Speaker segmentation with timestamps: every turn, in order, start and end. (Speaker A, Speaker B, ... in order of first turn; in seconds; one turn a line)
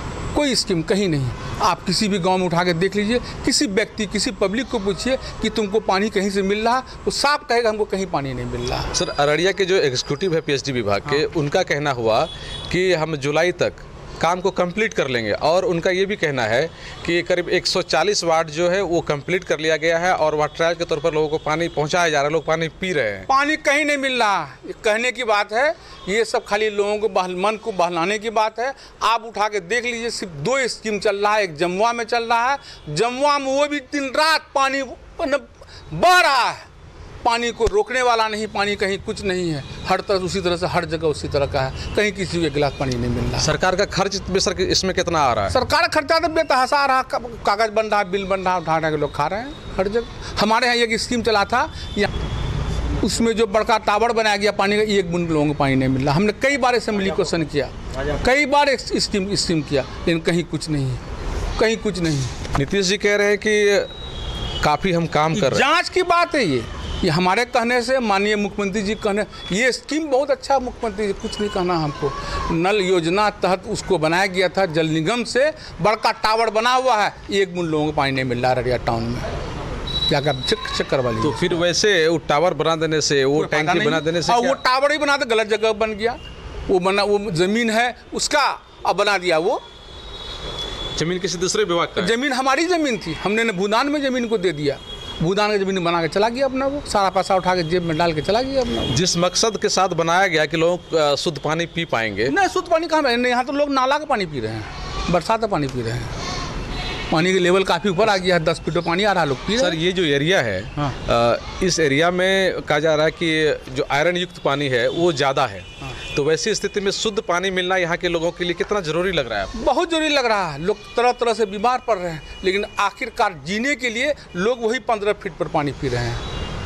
Speaker A: 0.3-8.9
Speaker B: 8.9-23.3
Speaker A: 23.3-36.7
Speaker A: 37.2-43.5
Speaker B: 43.4-45.5
Speaker A: 45.5-52.1
Speaker A: 53.0-61.0
Speaker A: 61.6-62.4
Speaker B: 62.5-63.9
Speaker B: 64.6-65.7
Speaker A: 65.3-79.3
Speaker A: 80.1-81.6
Speaker B: 81.2-84.6
Speaker A: 83.3-89.6
Speaker B: 90.9-92.1
Speaker A: 92.0-99.0
Speaker B: 98.9-102.3
Speaker A: 102.3-106.1
Speaker A: 107.1-109.8
Speaker B: 109.6-119.5
Speaker A: 119.5-126.2